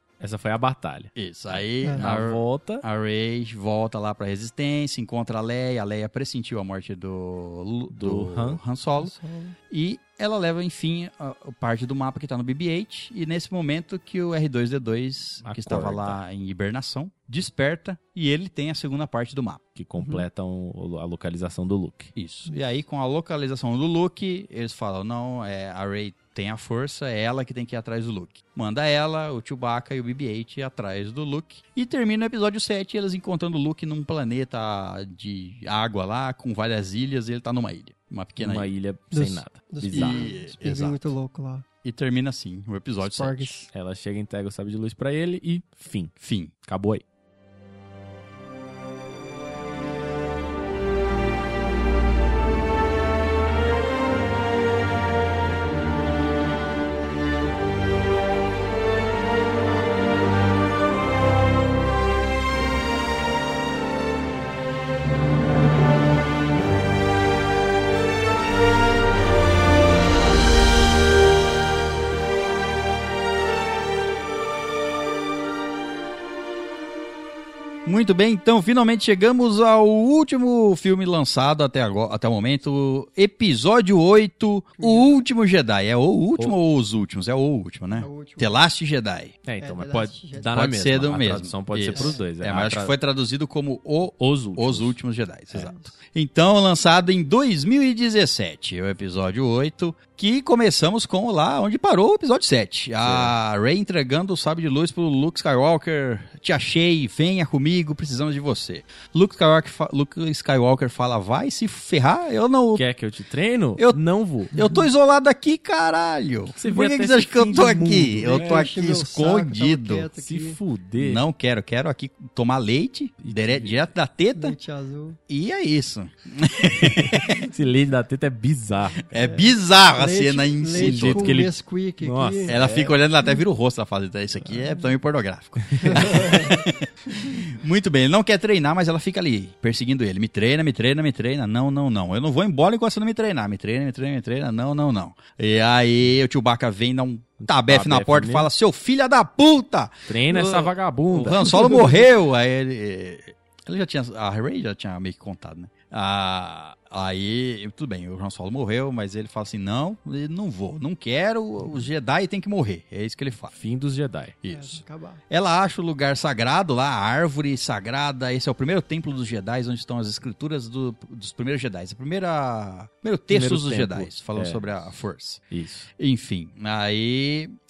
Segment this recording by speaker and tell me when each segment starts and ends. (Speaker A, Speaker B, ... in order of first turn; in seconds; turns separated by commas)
Speaker A: 0.2-2.8, Speaker B: 1.2-9.1, Speaker A: 7.9-8.6, Speaker C: 9.0-9.6, Speaker B: 9.7-19.6, Speaker A: 15.4-16.2, Speaker A: 19.8-22.1, Speaker B: 22.2-38.7, Speaker A: 38.4-40.3, Speaker C: 39.1-41.6, Speaker B: 39.9-41.1, Speaker B: 41.8-43.5, Speaker C: 43.0-43.7, Speaker A: 43.7-47.0, Speaker B: 46.2-46.5, Speaker B: 77.8-89.3, Speaker C: 84.8-85.2, Speaker C: 87.9-88.6, Speaker A: 89.5-92.9, Speaker C: 89.6-90.5, Speaker B: 90.5-112.9, Speaker C: 91.9-92.2, Speaker A: 94.2-95.0, Speaker C: 95.5-95.9, Speaker A: 103.0-103.3, Speaker A: 112.8-114.5, Speaker B: 114.5-120.1, Speaker A: 116.6-118.7, Speaker C: 118.2-120.6, Speaker A: 120.2-121.2, Speaker B: 121.0-124.6, Speaker A: 123.2-123.8, Speaker C: 124.4-125.2, Speaker B: 125.3-127.5, Speaker A: 126.8-129.0, Speaker B: 129.0-131.4, Speaker C: 129.1-132.6, Speaker A: 130.7-133.0, Speaker B: 132.5-163.5, Speaker A: 135.7-136.0, Speaker C: 135.8-136.5, Speaker A: 147.4-148.5, Speaker A: 150.1-151.5, Speaker A: 163.5-164.3, Speaker B: 164.4-175.4, Speaker C: 164.5-165.2, Speaker A: 173.3-174.9, Speaker A: 175.5-175.9, Speaker B: 176.0-177.5